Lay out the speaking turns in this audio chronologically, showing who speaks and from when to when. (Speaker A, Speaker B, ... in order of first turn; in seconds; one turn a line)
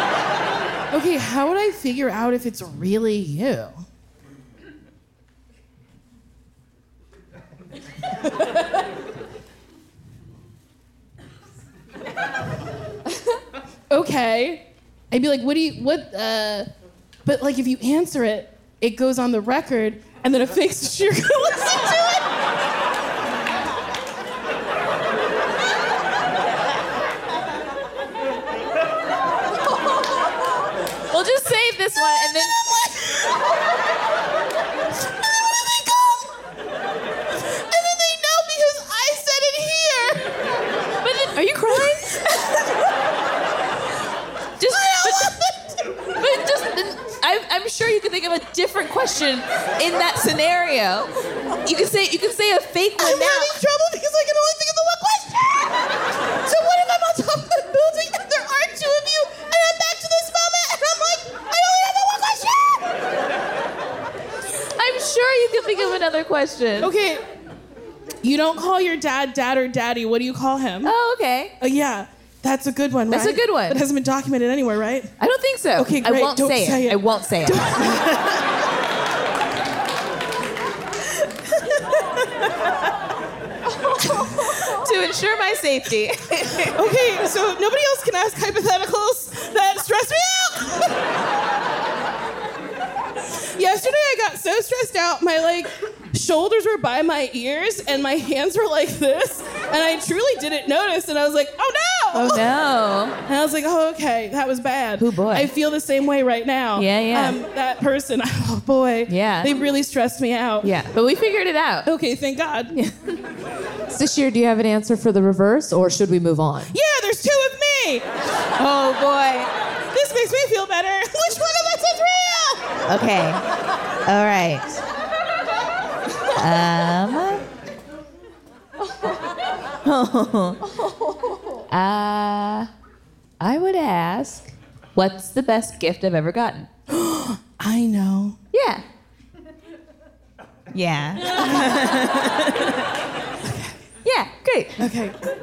Speaker A: 0.9-3.8
Speaker A: 13.9-16.7
Speaker A: 17.3-22.3
Speaker B: 31.1-32.9
Speaker A: 35.2-36.3
Speaker A: 37.7-40.3
Speaker B: 41.0-42.5
Speaker B: 44.6-45.3
Speaker A: 44.8-45.7
Speaker B: 46.1-51.1
Speaker B: 51.6-53.5
Speaker A: 53.0-55.8
Speaker A: 56.4-63.0
Speaker B: 64.8-66.9
Speaker A: 66.8-67.2
Speaker A: 68.2-70.9
Speaker B: 70.8-71.5
Speaker A: 71.6-75.1
Speaker B: 73.1-73.8
Speaker B: 75.2-78.2
Speaker A: 75.8-78.4
Speaker B: 84.2-86.8
Speaker A: 86.7-91.0
Speaker A: 93.5-102.5
Speaker B: 102.1-103.2
Speaker A: 103.3-110.7
Speaker B: 105.0-105.5
Speaker B: 106.8-107.4
Speaker B: 109.1-109.5
Speaker B: 110.6-111.9
Speaker A: 111.8-112.8
Speaker B: 112.7-113.1
Speaker C: 113.9-116.7
Speaker A: 116.7-118.1
Speaker B: 118.5-119.5
Speaker A: 119.9-122.8
Speaker B: 122.9-123.4
Speaker B: 124.0-124.8
Speaker B: 126.3-127.5
Speaker B: 129.8-130.6
Speaker B: 131.7-132.7
Speaker B: 133.4-136.7
Speaker A: 136.9-138.4
Speaker B: 138.5-138.8
Speaker B: 140.7-142.9
Speaker A: 143.4-143.8
Speaker B: 144.0-144.9
Speaker A: 144.8-145.2